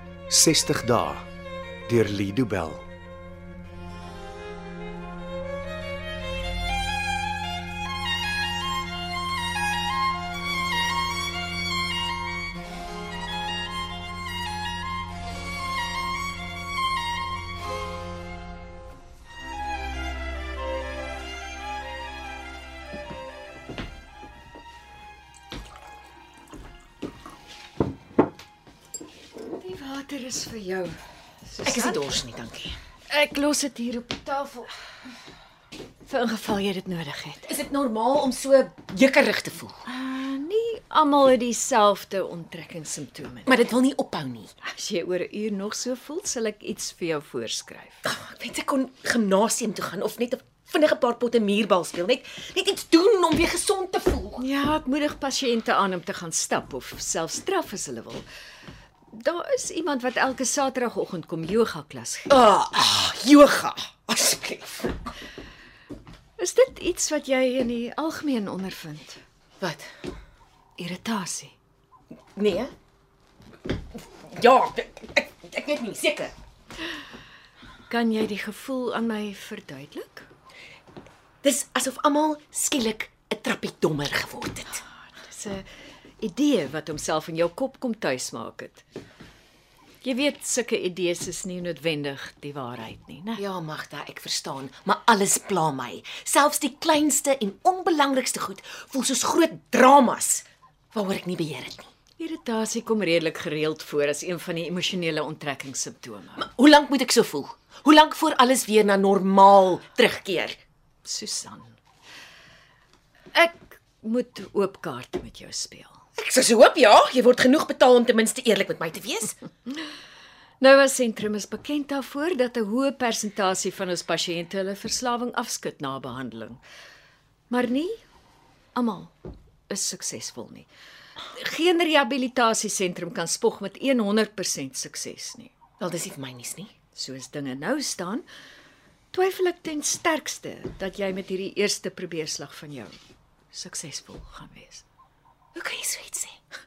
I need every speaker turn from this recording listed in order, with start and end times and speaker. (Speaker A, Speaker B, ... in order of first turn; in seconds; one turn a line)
Speaker A: 0.3-1.3
Speaker A: 1.9-2.9
Speaker B: 29.5-32.2
Speaker C: 31.6-32.8
Speaker B: 33.1-34.7
Speaker B: 36.1-37.5
Speaker C: 37.5-39.8
Speaker B: 39.9-43.5
Speaker C: 43.5-44.5
Speaker B: 44.6-48.0
Speaker C: 48.0-54.4
Speaker B: 54.4-58.2
Speaker B: 59.1-62.3
Speaker C: 62.3-65.1
Speaker B: 66.4-69.2
Speaker C: 69.6-70.0
Speaker B: 70.8-71.5
Speaker C: 72.3-72.7
Speaker C: 73.9-76.3
Speaker B: 77.9-80.3
Speaker C: 81.4-84.8
Speaker B: 85.2-85.7
Speaker B: 86.2-88.8
Speaker B: 90.0-93.4
Speaker C: 93.4-101.9
Speaker B: 102.2-106.5
Speaker C: 106.4-110.6
Speaker B: 111.0-111.8
Speaker B: 113.3-116.0
Speaker C: 116.2-119.4
Speaker B: 120.6-126.6
Speaker B: 127.5-128.0
Speaker B: 128.8-129.2
Speaker B: 129.7-130.7
Speaker B: 131.3-135.5
Speaker C: 135.8-136.7
Speaker B: 136.9-138.3
Speaker B: 139.1-143.0
Speaker B: 143.5-144.8
Speaker C: 145.6-146.4